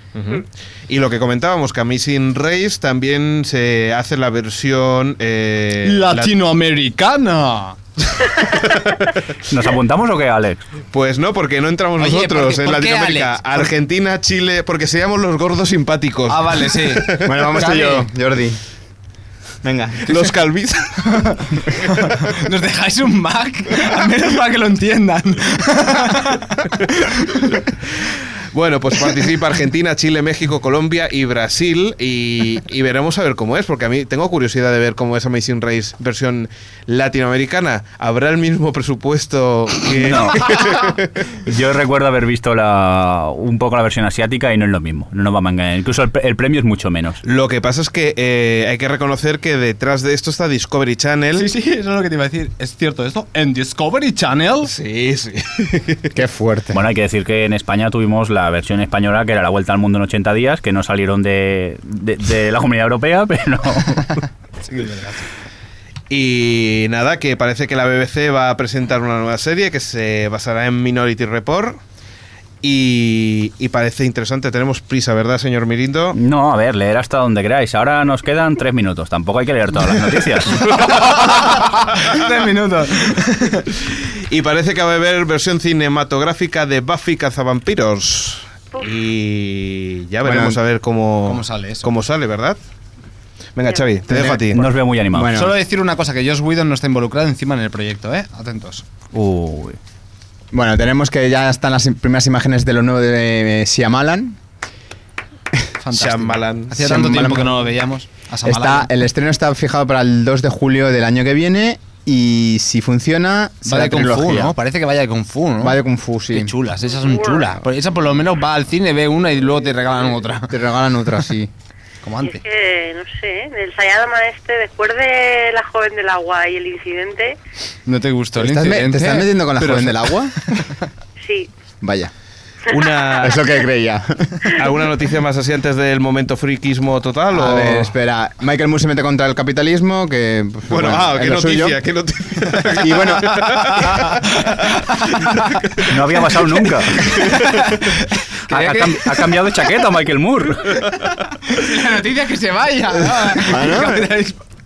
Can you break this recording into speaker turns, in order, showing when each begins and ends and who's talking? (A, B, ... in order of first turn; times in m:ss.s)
0:00.2-0:06.3 A
0:05.8-0:07.8 B
0:08.2-0:09.2 A
0:09.5-0:10.6 C
0:10.9-0:17.4 A
0:12.0-0:13.7 B
0:16.3-0:18.1 B
0:17.2-0:18.6 D
0:19.6-0:20.1 D
0:20.1-0:21.0 A
0:20.1-0:20.4 B
0:21.0-0:27.6 B
0:28.5-0:41.2 A
0:39.9-0:40.9 C
0:41.4-0:47.2 C
0:47.2-0:51.5 A
0:51.4-0:54.7 B
0:54.6-0:56.2 A
0:56.1-0:56.8 D
0:56.7-1:04.2 C
1:04.6-1:05.3 B
1:06.1-1:11.8 A
1:12.6-1:16.2 A
1:16.1-1:20.9 C
1:20.6-1:21.5 A
1:20.7-1:23.7 B
1:23.8-1:32.6 A
1:30.2-1:30.6 D
1:31.2-1:31.9 B
1:33.6-1:34.7 A
1:34.1-1:34.5 D
1:34.5-1:35.4 C
1:35.1-1:35.5 D
1:35.3-1:38.9 B
1:39.1-1:39.8 C
1:40.5-1:44.4 D
1:45.8-1:48.9 B
1:45.9-1:46.8 A
1:46.8-1:47.5 D
1:48.4-1:54.5 D
1:53.6-1:55.8 B
1:55.6-1:56.6 D
1:56.3-2:00.6 B
1:57.0-1:57.4 E
2:00.5-2:01.5 D
2:02.0-2:02.4 B
2:02.2-2:07.4 E
2:07.9-2:10.7 B
2:08.4-2:10.5 D
2:11.2-2:11.5 E
2:11.8-2:12.1 D
2:12.7-2:13.4 A
2:13.2-2:14.6 D
2:14.5-2:17.9 A
2:17.3-2:21.8 D
2:20.7-2:24.7 A
2:22.6-2:23.9 D
2:23.4-2:23.9 B
2:24.5-2:25.5 B
2:25.3-2:25.9 A
2:25.9-2:27.4 C
2:27.0-2:29.5 B
2:28.5-2:30.9 C
2:31.5-2:34.4 B
2:33.2-2:34.2 D